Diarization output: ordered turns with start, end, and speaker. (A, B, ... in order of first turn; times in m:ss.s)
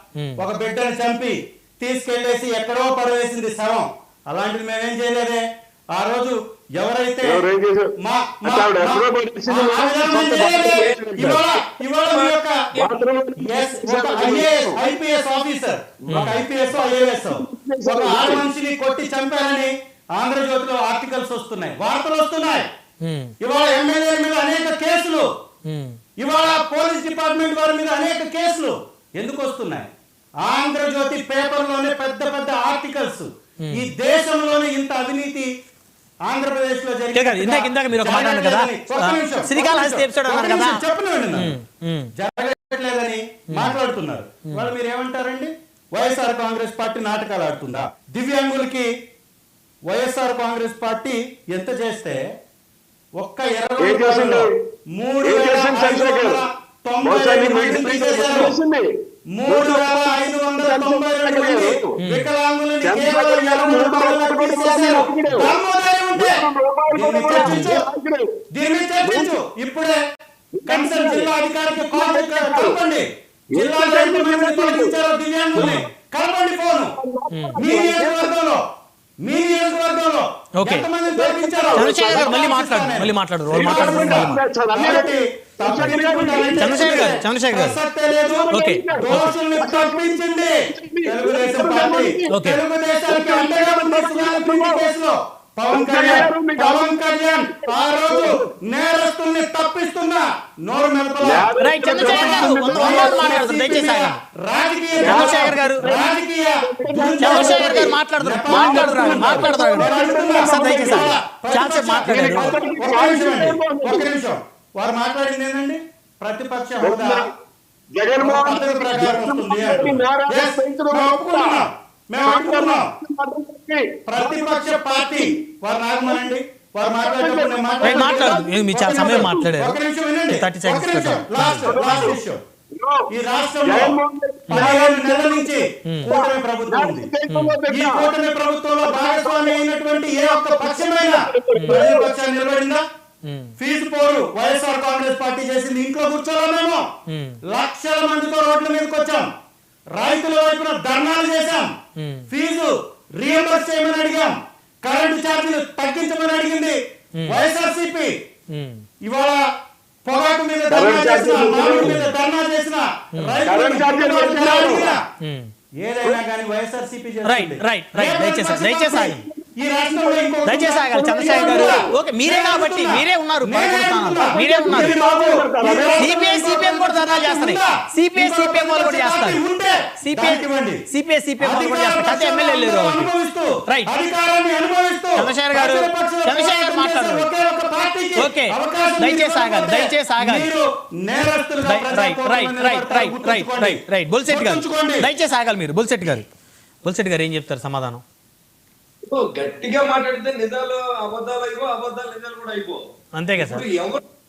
0:00.2-0:00.4 A
0:00.4-0:07.4 B
0:07.2-0:07.9 C
0:08.0-0:12.6 B
0:08.4-0:11.4 C
0:10.4-0:13.0 D
0:12.8-0:14.8 C
0:13.4-0:22.7 B
0:16.0-0:16.4 A
0:16.2-0:18.4 C
0:23.0-0:23.3 A
0:23.4-0:25.2 B
0:25.6-0:26.0 A
0:26.2-0:29.9 B
0:30.4-0:35.5 B
0:36.2-0:41.5 B
0:37.1-0:40.8 A
0:41.3-0:42.1 A
0:42.2-0:48.9 B
0:43.5-0:43.8 A
0:49.9-0:52.2 B
0:53.2-0:58.6 B
0:53.8-0:54.5 C
0:55.2-0:56.4 C
0:57.0-0:58.9 C
0:59.3-1:06.4 B
0:59.4-1:01.9 C
1:02.0-1:02.3 A
1:02.8-1:05.5 C
1:06.1-1:08.3 C
1:06.9-1:07.8 B
1:08.5-1:10.0 B
1:09.0-1:09.4 C
1:10.6-1:12.8 C
1:10.7-1:16.9 B
1:13.5-1:15.0 C
1:15.5-1:15.9 C
1:17.0-1:18.4 C
1:17.3-1:17.6 A
1:17.6-1:18.6 B
1:19.2-1:57.3 B
1:20.6-1:20.9 A
1:21.1-1:22.3 C
1:21.7-1:24.4 A
1:23.5-1:27.0 C
1:26.6-1:27.8 A
1:28.2-1:32.3 C
1:28.5-1:29.3 A
1:32.3-1:32.6 A
1:33.1-1:34.9 C
1:35.7-1:37.0 C
1:37.6-1:38.5 C
1:41.2-1:43.3 C
1:41.6-1:44.2 A
1:45.0-1:45.8 A
1:45.0-1:46.1 C
1:46.6-1:48.0 C
1:47.2-1:52.6 A
1:48.5-1:51.2 C
1:52.1-1:54.2 C
1:56.8-1:57.3 C
1:57.9-2:01.6 C
1:58.2-2:02.9 B
2:02.2-2:05.3 C
2:04.1-2:08.4 B
2:06.8-2:09.5 C
2:07.8-2:09.8 A
2:09.0-2:12.4 B
2:10.3-2:12.2 A
2:11.7-2:12.2 C
2:12.7-2:13.0 C
2:13.1-2:14.0 B
2:13.6-2:18.1 C
2:14.5-2:17.1 B
2:17.3-2:17.6 A
2:17.7-2:22.8 B
2:18.8-2:22.1 C
2:21.5-2:21.8 A
2:23.2-2:23.5 A
2:23.6-2:26.8 B
2:27.1-2:27.4 A
2:27.5-2:29.3 B
2:29.9-2:31.7 B
2:32.0-2:32.3 A
2:32.3-2:38.1 B
2:38.5-2:38.8 A
2:39.0-2:39.4 B
2:40.0-2:45.0 B
2:40.7-2:42.0 C
2:41.8-2:42.1 A
2:43.4-2:45.0 C
2:45.2-2:45.5 A
2:45.8-3:00.8 B
2:47.2-2:49.2 A
2:49.8-2:50.4 C
2:50.4-2:55.0 A
2:51.0-2:51.9 C
2:54.2-2:56.2 C
2:56.0-2:59.4 A
3:00.0-3:03.1 A
3:01.4-3:15.0 B
3:05.2-3:07.3 A
3:08.2-3:10.5 A
3:11.6-3:16.2 A
3:16.8-3:18.0 A
3:19.0-3:22.8 D
3:23.2-3:23.6 A
3:23.3-3:24.0 D